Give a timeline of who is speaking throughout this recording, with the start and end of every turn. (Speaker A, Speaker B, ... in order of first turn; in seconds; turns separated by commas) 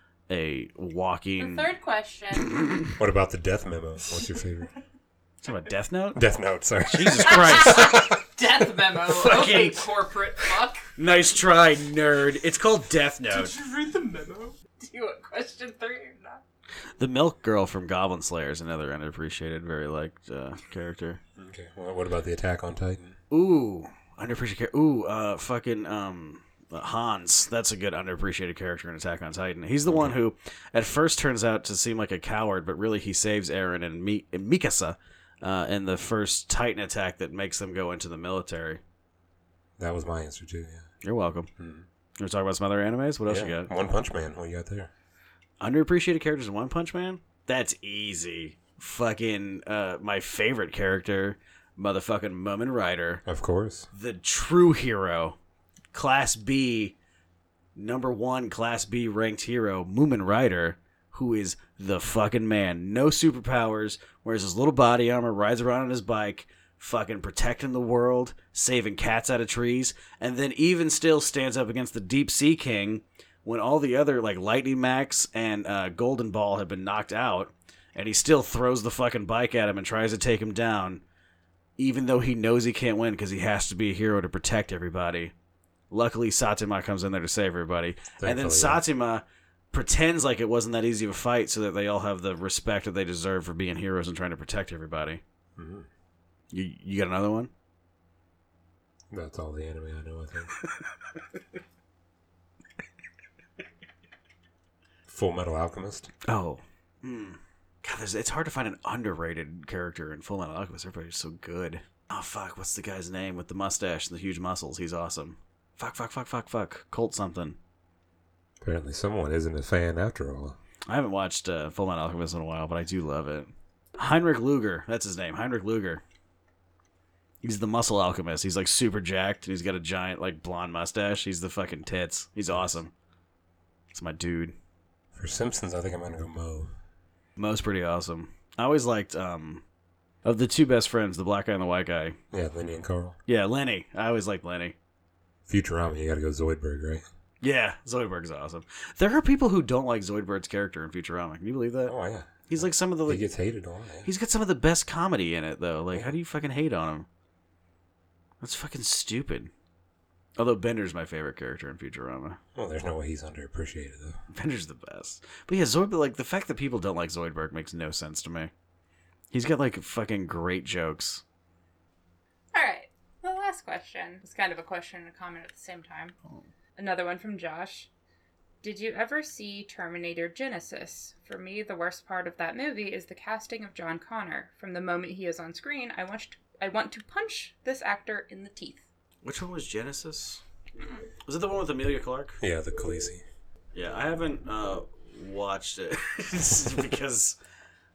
Speaker A: 0.3-1.7, Speaker B: 1.4-2.6, Speaker A: 2.6-2.9, Speaker C: 3.0-4.7, Speaker A: 5.4-6.2, Speaker C: 6.2-7.9, Speaker A: 6.9-8.1, Speaker B: 7.3-10.9, Speaker A: 9.1-9.8, Speaker A: 11.0-13.6, Speaker B: 13.3-16.4, Speaker A: 17.0-21.2, Speaker C: 21.4-23.1, Speaker A: 23.3-38.8, Speaker C: 29.9-30.1, Speaker C: 39.8-40.9, Speaker A: 41.0-41.5, Speaker C: 41.6-41.9, Speaker A: 42.2-43.7, Speaker C: 43.3-44.9, Speaker A: 45.6-53.2, Speaker C: 53.2-53.9, Speaker A: 53.9-55.4, Speaker A: 55.9-57.0, Speaker A: 57.8-81.0, Speaker A: 81.8-85.3, Speaker A: 85.9-95.2, Speaker C: 88.2-88.8, Speaker C: 95.6-95.9, Speaker A: 96.5-97.5, Speaker C: 99.1-100.5, Speaker C: 105.1-106.1, Speaker A: 106.3-117.6, Speaker C: 118.6-120.6, Speaker A: 120.9-126.0, Speaker A: 127.4-132.9, Speaker A: 133.9-134.6, Speaker C: 135.2-136.7, Speaker A: 137.4-139.6, Speaker A: 140.2-142.2, Speaker C: 142.3-143.2, Speaker A: 143.3-144.8, Speaker C: 145.5-147.0, Speaker A: 147.4-151.9, Speaker C: 151.9-152.5, Speaker A: 152.5-153.3, Speaker C: 153.1-154.1, Speaker A: 154.0-157.1, Speaker A: 158.4-159.5, Speaker A: 160.4-162.4, Speaker C: 162.6-164.2, Speaker A: 164.3-168.5, Speaker A: 169.3-171.2, Speaker B: 172.5-176.2, Speaker B: 176.8-177.9, Speaker B: 178.6-188.8, Speaker A: 189.2-190.4, Speaker A: 191.2-192.4, Speaker C: 192.4-193.2, Speaker A: 193.7-197.4